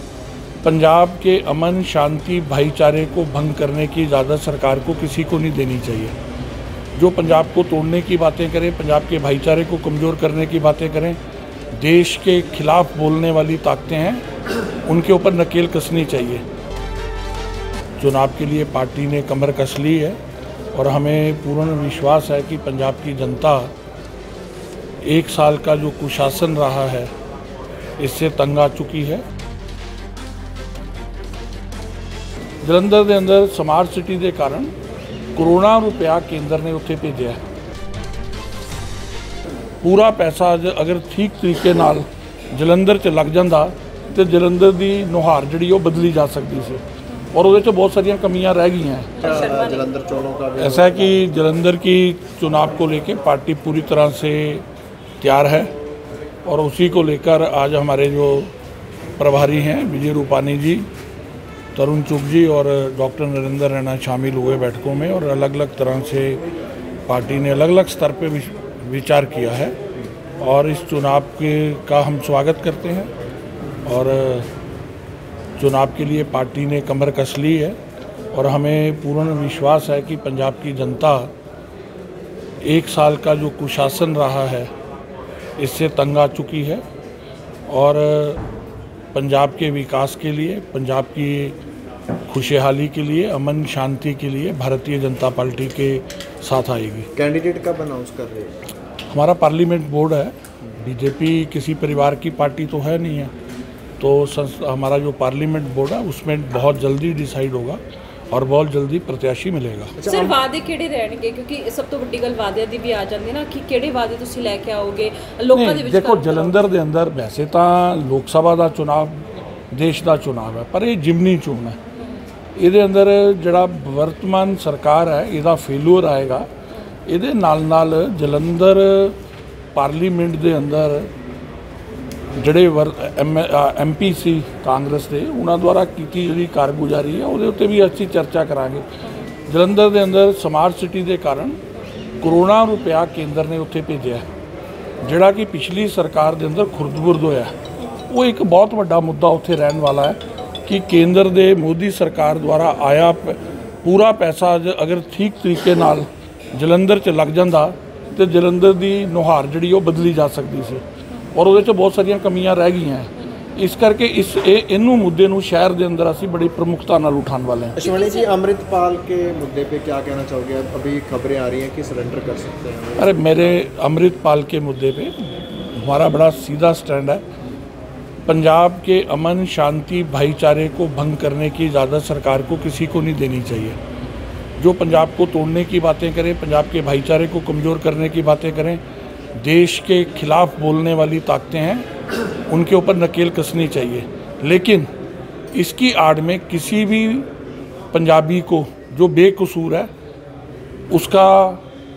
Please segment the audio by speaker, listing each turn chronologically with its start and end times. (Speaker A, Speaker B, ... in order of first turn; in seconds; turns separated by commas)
Speaker A: 0.6-6.2, Speaker A: 7.0-11.2, Speaker A: 11.8-14.2, Speaker A: 14.8-16.4, Speaker A: 18.0-20.2, Speaker A: 20.7-23.7, Speaker A: 25.0-27.1, Speaker A: 28.0-29.3, Speaker A: 32.6-34.7, Speaker A: 35.4-37.4, Speaker A: 39.8-49.3, Speaker B: 49.2-49.9, Speaker C: 49.2-51.2, Speaker A: 50.6-54.6, Speaker A: 55.2-55.7, Speaker A: 56.5-58.5, Speaker A: 59.2-60.9, Speaker A: 61.8-66.4, Speaker A: 67.1-69.8, Speaker A: 70.4-73.1, Speaker A: 73.8-74.5, Speaker A: 75.6-77.8, Speaker A: 78.3-81.3, Speaker A: 82.6-84.7, Speaker A: 85.6-86.8, Speaker A: 87.7-88.4, Speaker A: 89.1-91.6, Speaker A: 92.3-97.1, Speaker C: 97.2-98.6, Speaker A: 99.1-103.3, Speaker A: 104.0-110.0, Speaker C: 110.0-110.4, Speaker B: 110.0-116.6, Speaker A: 115.5-121.8, Speaker A: 122.6-126.5, Speaker A: 127.1-129.2, Speaker A: 129.7-131.1, Speaker A: 132.4-138.9, Speaker A: 139.5-141.6, Speaker A: 142.2-144.3, Speaker A: 145.0-147.5, Speaker A: 148.1-167.8, Speaker C: 167.8-173.6, Speaker B: 167.8-168.3, Speaker A: 173.0-177.3, Speaker A: 178.3-183.8, Speaker A: 184.6-188.8, Speaker A: 189.4-191.9, Speaker A: 192.5-194.9, Speaker A: 195.5-197.3, Speaker A: 197.9-199.9, Speaker A: 200.9-201.6